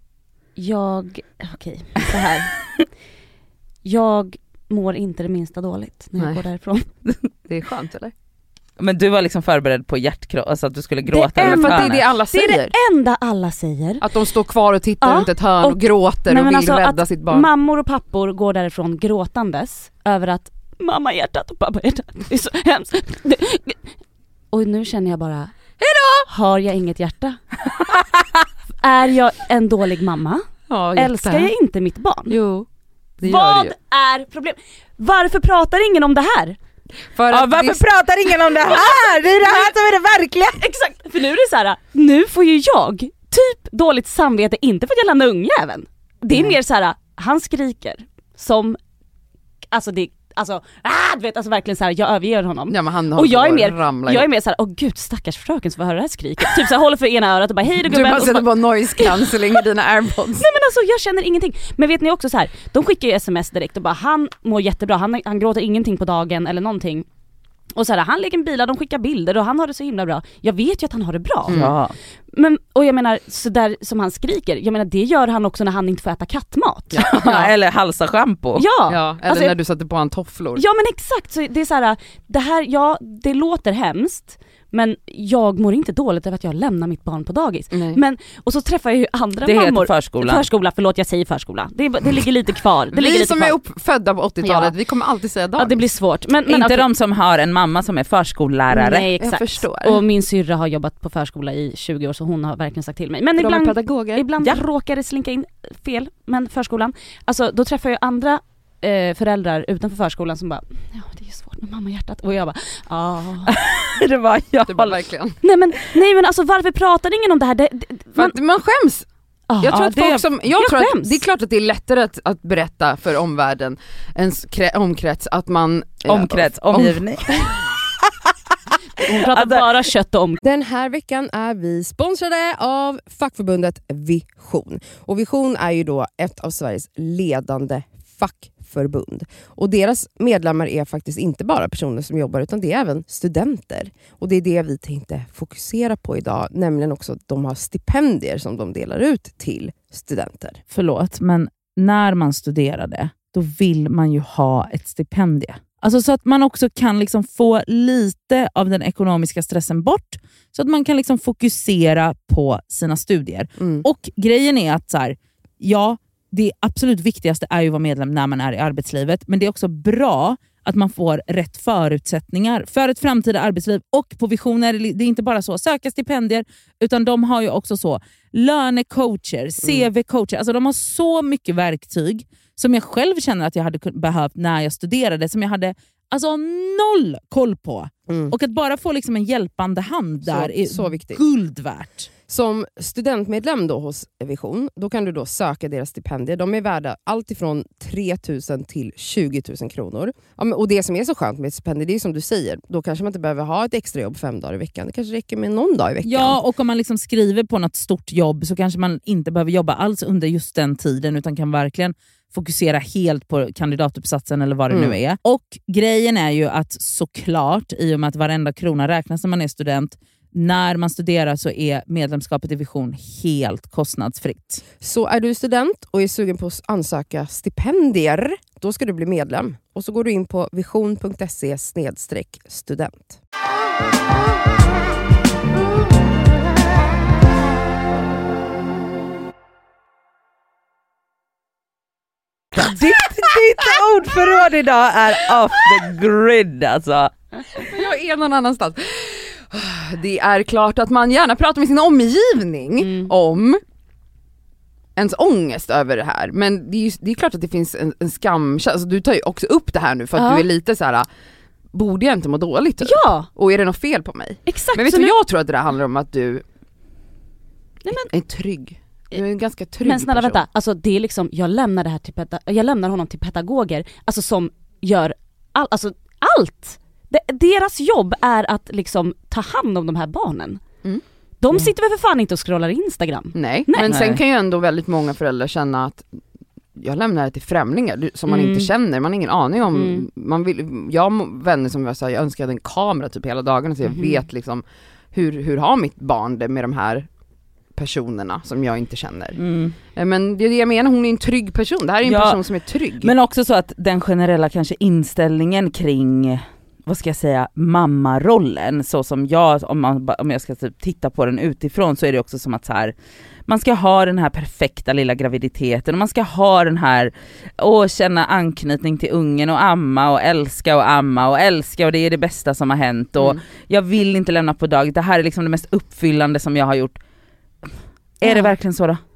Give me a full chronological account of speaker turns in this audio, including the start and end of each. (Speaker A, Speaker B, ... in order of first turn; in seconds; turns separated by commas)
Speaker A: 0.6-2.5, Speaker A: 3.8-6.9, Speaker B: 7.5-8.1, Speaker C: 8.8-12.0, Speaker A: 11.1-14.1, Speaker B: 11.4-12.7, Speaker B: 14.0-17.5, Speaker A: 15.0-23.8, Speaker A: 24.5-25.5, Speaker B: 25.8-26.3, Speaker A: 26.3-27.4, Speaker A: 28.8-32.4, Speaker B: 30.7-31.5, Speaker B: 32.3-32.6, Speaker B: 33.2-33.7, Speaker A: 33.2-36.6, Speaker B: 37.1-37.8, Speaker C: 37.3-40.6, Speaker A: 40.6-48.8, Speaker A: 49.7-59.6, Speaker B: 52.7-54.3, Speaker B: 57.9-60.5, Speaker A: 60.4-67.0, Speaker A: 67.8-71.6, Speaker B: 71.5-71.7, Speaker C: 71.5-71.9, Speaker A: 72.3-77.1, Speaker B: 76.9-77.5, Speaker C: 77.0-78.6, Speaker A: 78.5-79.5, Speaker B: 78.9-80.6, Speaker A: 80.5-93.6, Speaker B: 87.7-88.0, Speaker C: 89.4-90.4, Speaker B: 92.9-95.8, Speaker A: 94.4-94.7, Speaker A: 95.6-96.9, Speaker C: 96.5-99.1, Speaker A: 98.7-113.5, Speaker B: 99.2-100.0, Speaker B: 103.4-104.2, Speaker C: 113.5-115.0, Speaker B: 114.7-115.4, Speaker A: 115.4-118.3, Speaker B: 118.2-119.0, Speaker A: 119.5-121.2, Speaker B: 119.6-127.5, Speaker C: 119.7-120.2, Speaker C: 126.1-128.3, Speaker A: 129.0-130.4, Speaker C: 129.0-129.7, Speaker D: 130.4-150.6, Speaker C: 150.7-192.1, Speaker B: 163.6-163.8, Speaker D: 188.1-188.3, Speaker D: 190.3-191.2, Speaker D: 192.3-206.4, Speaker C: 206.0-224.6, Speaker D: 224.8-233.2, Speaker C: 242.5-247.1, Speaker B: 247.6-253.6, Speaker A: 252.8-253.1, Speaker B: 254.9-261.1, Speaker A: 260.1-260.4, Speaker B: 261.7-266.4, Speaker A: 262.8-263.3, Speaker A: 264.5-265.1, Speaker A: 267.9-268.1, Speaker B: 267.9-270.4, Speaker A: 269.8-280.6, Speaker A: 281.4-284.0, Speaker B: 283.3-286.0, Speaker C: 283.9-284.2, Speaker B: 286.8-297.1, Speaker A: 288.3-288.7, Speaker A: 289.7-290.1, Speaker A: 293.8-294.2, Speaker B: 297.8-299.4, Speaker C: 299.4-299.8, Speaker B: 299.9-303.1, Speaker C: 302.0-302.4, Speaker C: 303.0-312.9, Speaker C: 313.5-327.0, Speaker C: 328.2-329.0, Speaker A: 328.2-328.5